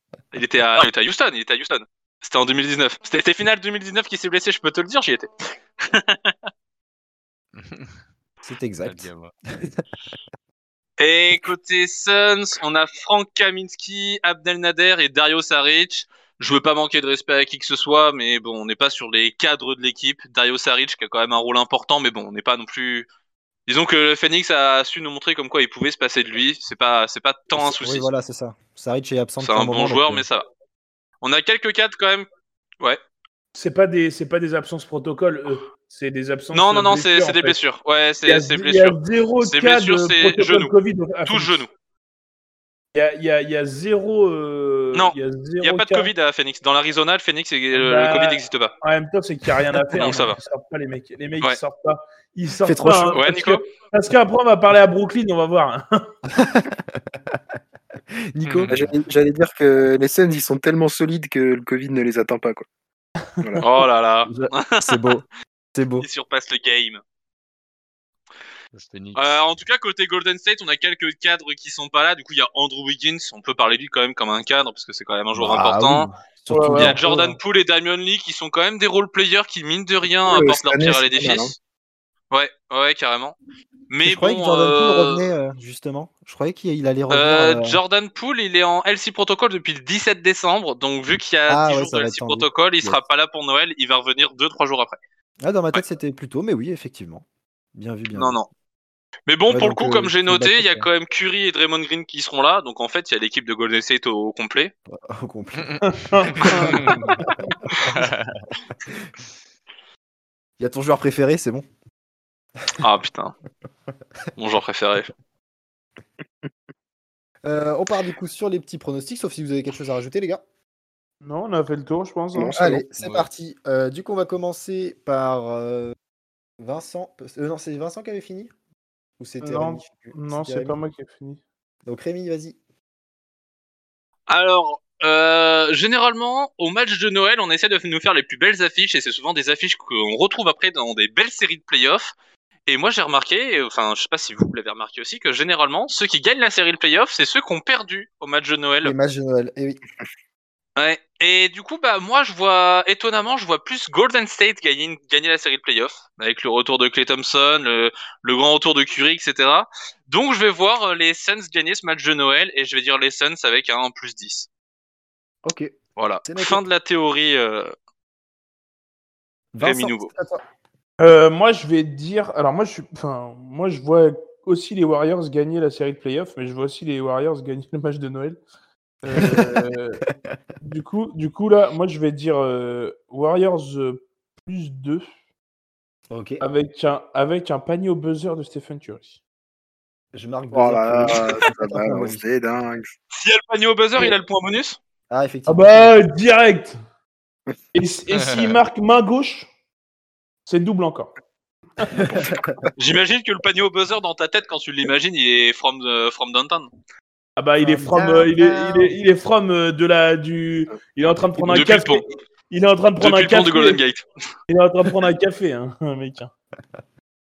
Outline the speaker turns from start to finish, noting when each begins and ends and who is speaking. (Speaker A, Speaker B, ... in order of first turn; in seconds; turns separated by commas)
Speaker A: 0.3-5.3, Speaker A: 5.8-6.3, Speaker B: 7.5-8.0, Speaker C: 8.4-9.8, Speaker B: 8.8-9.3, Speaker A: 11.0-23.1, Speaker A: 23.7-28.1, Speaker C: 27.6-30.2, Speaker A: 29.4-30.4, Speaker A: 31.2-32.3, Speaker D: 33.5-37.6, Speaker A: 36.5-40.7, Speaker D: 38.3-41.6, Speaker A: 41.3-41.7, Speaker D: 42.9-46.1, Speaker A: 44.9-48.7, Speaker D: 47.7-56.1, Speaker A: 49.9-50.4, Speaker C: 52.6-53.2, Speaker A: 53.1-53.6, Speaker C: 56.3-57.4, Speaker C: 58.1-58.8, Speaker B: 58.5-58.9, Speaker E: 58.7-62.6, Speaker A: 63.6-65.0, Speaker C: 64.3-66.1, Speaker A: 66.0-67.0, Speaker B: 68.7-69.4, Speaker A: 69.2-76.1, Speaker C: 75.3-77.0, Speaker D: 76.5-77.4, Speaker A: 76.7-81.6, Speaker E: 80.3-81.5, Speaker A: 82.3-83.4, Speaker A: 83.9-85.2, Speaker C: 84.0-87.8, Speaker A: 87.1-95.0, Speaker C: 91.5-93.0, Speaker C: 95.4-98.4, Speaker A: 98.2-98.5, Speaker A: 99.3-104.7, Speaker C: 99.5-100.9, Speaker C: 104.9-105.8, Speaker D: 105.8-107.3, Speaker B: 106.3-107.2, Speaker C: 106.3-107.2, Speaker B: 107.9-108.3, Speaker C: 110.6-111.7, Speaker A: 112.8-113.3, Speaker A: 114.4-115.1, Speaker C: 117.4-120.4, Speaker D: 121.2-122.6, Speaker E: 122.3-122.8, Speaker C: 122.5-126.0, Speaker B: 123.0-123.3, Speaker C: 126.6-128.5, Speaker C: 129.2-130.8, Speaker D: 129.4-131.4, Speaker C: 131.9-132.6, Speaker A: 134.3-142.1, Speaker A: 142.7-148.9, Speaker C: 148.8-149.8, Speaker A: 150.8-164.5, Speaker C: 165.4-166.6, Speaker A: 166.0-167.7, Speaker C: 169.5-170.4, Speaker A: 169.6-170.1, Speaker D: 171.0-178.4, Speaker D: 179.1-180.0, Speaker C: 179.1-179.7, Speaker D: 180.6-185.1, Speaker C: 186.1-186.4, Speaker D: 186.4-189.2, Speaker C: 190.1-192.2, Speaker E: 190.5-192.9, Speaker A: 193.1-194.8, Speaker C: 195.1-196.0, Speaker D: 195.5-196.8, Speaker D: 197.7-199.5, Speaker B: 198.1-198.6, Speaker D: 200.5-201.1, Speaker C: 201.9-202.5, Speaker E: 202.0-202.7, Speaker A: 202.8-206.7, Speaker D: 207.4-213.8, Speaker C: 207.6-208.9, Speaker C: 211.4-211.7, Speaker A: 211.5-212.0, Speaker A: 213.0-214.0, Speaker D: 214.5-216.3